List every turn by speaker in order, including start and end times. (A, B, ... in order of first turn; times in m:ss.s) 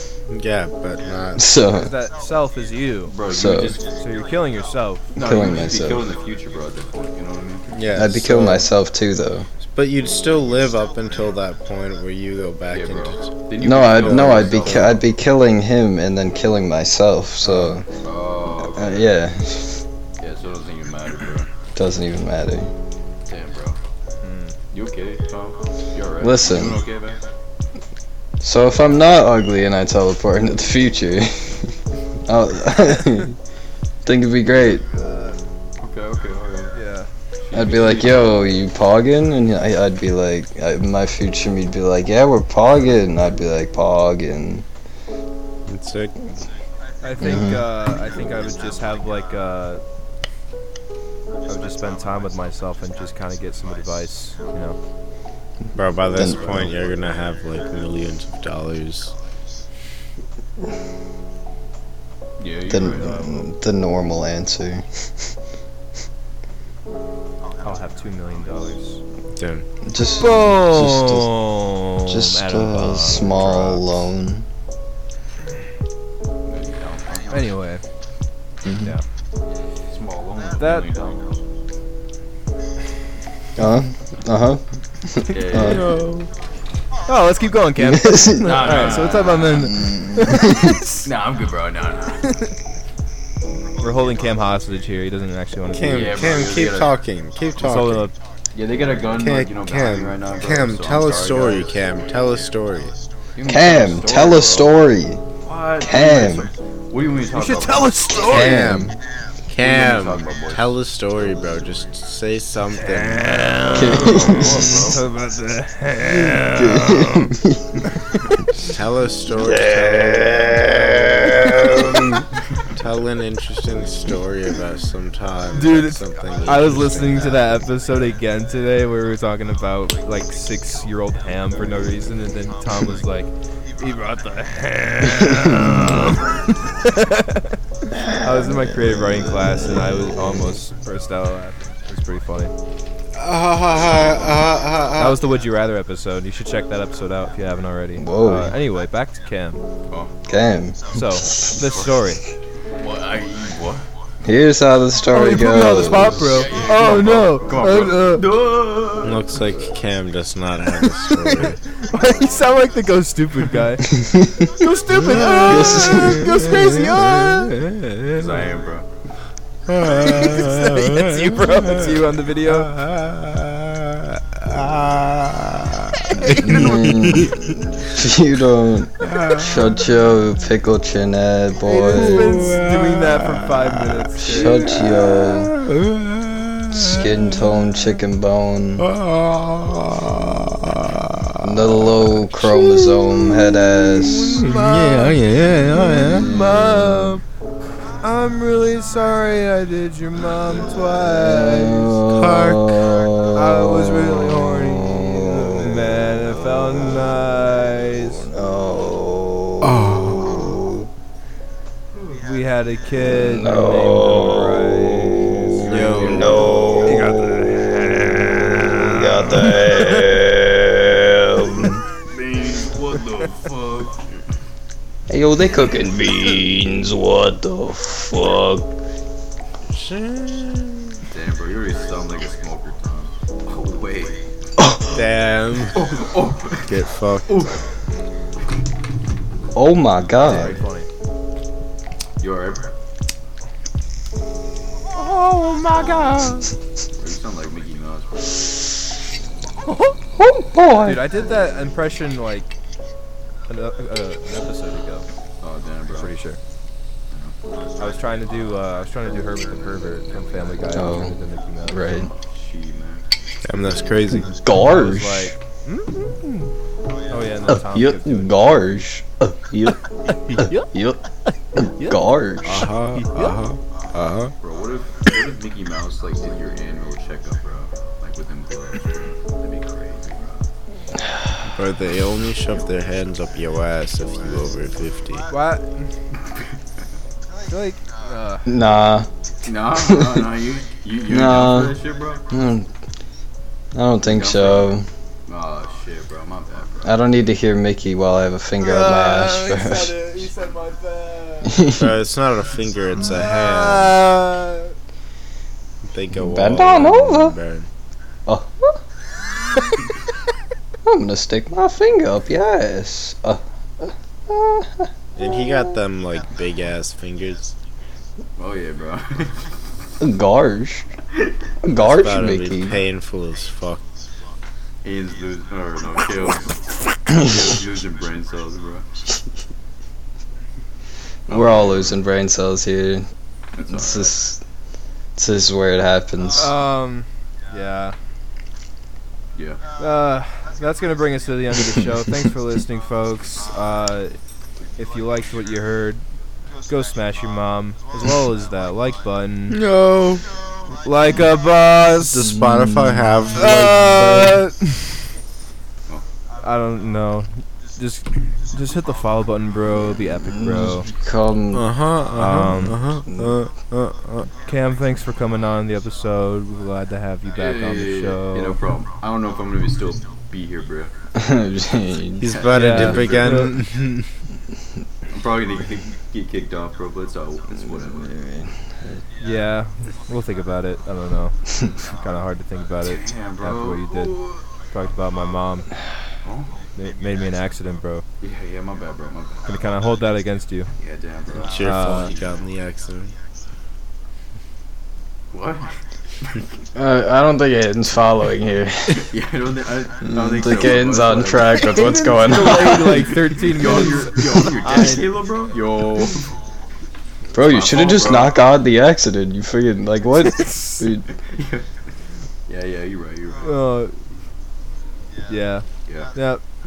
0:00.3-0:01.5 A
0:01.4-0:01.9 B
0:01.7-0:03.2 C
0:03.1-0:03.8 D
0:03.3-0:03.8 B
0:03.9-0:05.1 C
0:05.1-0:07.7 D
0:05.2-0:06.1 B
0:07.7-0:08.7 A
0:07.9-0:09.5 B
0:09.7-0:13.3 A
0:12.7-0:15.0 D
0:13.6-0:17.8 B
0:17.4-0:17.7 C
0:18.0-0:19.2 D
0:18.8-0:19.8 B
0:20.2-0:21.5 D
0:21.8-0:22.7 B
0:23.3-0:23.8 D
0:24.2-0:24.6 C
0:24.7-0:27.2 D
0:26.2-0:26.8 B
0:28.4-0:31.7 B
0:32.3-0:33.4 B
0:34.0-0:34.8 B
0:34.9-0:35.4 C
0:35.8-0:36.8 D
0:36.7-0:37.1 C
0:37.4-0:38.3 D
0:37.5-0:44.6 B
0:45.7-0:46.5 A
0:47.0-0:49.8 C
0:47.2-0:47.6 B
0:51.5-0:54.8 C
0:55.8-0:59.1 A
0:56.1-0:57.0 D
0:56.2-0:56.7 B
1:02.4-1:03.2 D
1:02.7-1:05.3 B
1:03.0-1:03.3 C
1:07.6-1:09.0 C
1:09.3-1:09.7 A
1:09.9-1:11.3 B
1:10.2-1:14.0 C
1:12.1-1:14.4 B
1:16.4-1:17.5 D
1:17.3-1:17.8 C
1:18.6-1:18.9 B
1:19.9-1:21.4 D
1:20.6-1:20.9 C
1:23.6-1:25.9 B
1:25.3-1:25.9 D
1:25.6-1:26.3 A
1:27.1-1:31.1 C
1:27.8-1:29.0 B
1:28.4-1:29.7 D
1:29.6-1:30.7 B
1:31.0-1:32.2 D
1:32.3-1:32.5 C
1:33.8-1:36.2 C
1:35.7-1:38.1 A
1:35.9-1:36.9 D
1:37.6-1:38.1 C
1:38.5-1:41.7 D
1:39.1-1:43.0 A
1:43.4-1:44.8 D
1:43.5-1:45.2 B
1:45.4-1:48.2 D
1:45.8-1:46.5 B
1:47.3-1:48.8 C
1:48.2-1:49.0 B
1:48.2-1:49.0 A
1:49.5-1:54.2 A
1:49.6-1:50.7 D
1:52.8-1:57.3 C
1:53.7-1:55.0 D
1:53.8-1:54.7 B
1:56.5-1:57.8 B
1:58.7-2:02.0 A
1:59.4-2:02.3 B
2:02.7-2:07.7 A
2:05.5-2:17.6 C
2:18.0-2:20.5 B
2:18.1-2:22.5 C
2:23.2-2:25.2 A
2:24.0-2:24.4 D
2:25.0-2:29.6 C
2:28.0-2:28.6 B
2:30.3-2:31.0 B
2:30.9-2:32.2 C
2:32.8-2:33.9 D
2:34.2-2:36.5 B
2:35.1-2:38.3 C
2:36.0-2:39.3 D
2:39.0-2:41.6 A
2:41.1-2:47.6 C
2:43.9-2:44.5 B
2:44.9-2:48.5 A
2:45.3-2:46.4 B
2:48.1-2:48.9 D
2:49.7-2:57.5 A
2:50.0-2:52.7 C
2:56.2-3:02.3 B
2:56.2-2:56.5 C
2:59.0-2:59.9 A
3:01.6-3:04.7 C
3:01.9-3:07.9 A
3:04.2-3:05.5 B
3:06.7-3:08.9 B
3:08.8-3:13.6 A
3:11.4-3:14.5 B
3:14.0-3:17.2 C
3:14.3-3:16.3 A
3:15.6-3:17.2 B
3:18.0-3:22.0 C
3:20.8-3:25.6 B
3:22.1-3:23.0 A
3:23.3-3:28.3 C
3:28.3-3:30.8 B
3:29.6-3:30.6 A
3:32.0-3:32.2 D
3:32.2-3:36.1 C
3:33.1-3:37.3 B
3:35.6-3:36.4 A
3:35.7-3:36.7 D
3:36.8-3:40.2 C
3:38.7-3:41.8 B
3:42.1-3:44.1 D
3:45.1-3:48.7 B
3:49.7-3:51.0 A
3:51.1-3:54.2 D
3:54.6-3:54.9 B
3:54.8-3:56.0 A
3:55.7-3:57.6 D
3:56.6-3:57.5 A
3:59.5-4:00.6 B
4:00.2-4:00.9 C
4:00.3-4:00.6 D
4:02.2-4:02.8 D
4:04.9-4:06.5 C
4:07.0-4:08.8 D
4:09.6-4:10.0 C
4:10.2-4:11.1 B
4:10.7-4:12.5 C
4:13.5-4:15.1 C
4:15.4-4:16.1 D
4:15.9-4:16.4 C
4:17.8-4:21.9 C
4:20.2-4:20.6 D
4:20.7-4:21.2 B
4:21.7-4:22.1 B
4:22.1-4:23.0 D
4:23.4-4:24.4 A
4:24.2-4:25.3 B
4:24.5-4:26.5 C
4:27.1-4:28.4 C
4:27.5-4:29.8 B
4:30.1-4:30.7 C
4:30.4-4:31.0 B
4:31.3-4:32.1 C
4:31.6-4:32.7 B
4:32.4-4:34.3 A
4:32.9-4:33.4 C
4:34.4-4:40.5 D
4:41.4-4:45.3 A
4:45.3-4:45.9 C
4:47.5-4:48.5 C
4:48.5-4:49.1 B
4:49.4-4:52.3 D
4:49.7-4:50.3 B
4:51.1-4:51.8 B
4:52.3-4:52.7 B
4:53.7-4:54.9 B
4:54.0-4:57.0 D
4:56.8-5:00.0 B
4:58.6-5:01.7 C
5:01.5-5:01.9 B
5:01.7-5:04.0 A
5:03.2-5:04.7 C
5:05.8-5:07.7 A
5:06.2-5:07.4 B
5:08.3-5:08.8 B
5:10.8-5:15.6 B
5:15.2-5:17.6 A
5:18.4-5:19.5 D
5:20.0-5:20.8 B
5:21.6-5:22.8 B
5:21.8-5:23.8 A
5:24.8-5:26.5 D
5:27.0-5:28.9 D
5:31.3-5:32.0 D
5:31.3-5:33.1 B
5:33.5-5:34.2 D
5:33.7-5:34.4 B
5:35.2-5:36.5 B
5:36.3-5:38.0 C
5:39.4-5:39.6 D
5:39.8-5:44.2 C
5:44.8-5:46.0 C
5:46.7-5:49.6 C
5:49.5-5:50.2 A
5:50.8-5:52.4 C
5:52.0-5:54.4 A
5:52.4-5:53.1 B
5:53.4-5:55.0 C
5:56.4-6:00.9 C
6:00.2-6:01.8 B
6:01.5-6:04.3 A
6:02.1-6:02.8 C
6:04.4-6:08.6 C
6:07.4-6:10.9 D
6:11.2-6:12.4 B
6:12.2-6:14.1 A
6:12.3-6:13.6 D
6:12.5-6:13.6 C
6:15.1-6:18.1 D
6:17.9-6:19.0 B
6:19.2-6:24.2 C
6:22.8-6:24.3 D
6:24.7-6:25.7 C
6:26.2-6:26.6 D
6:26.8-6:28.0 C
6:28.2-6:29.5 D
6:29.5-6:30.7 C
6:30.8-6:32.2 D
6:31.3-6:33.1 A
6:31.6-6:32.1 C
6:35.3-6:36.4 D
6:36.8-6:39.1 B
6:39.0-6:46.4 D
6:40.0-6:43.1 B
6:41.6-6:45.2 C
6:47.3-6:51.1 B
6:47.4-6:48.4 D
6:50.2-6:50.9 C
6:51.2-6:51.8 D
6:52.5-6:53.5 D
6:53.4-6:54.0 C
6:55.3-6:56.4 C
6:55.9-6:56.1 D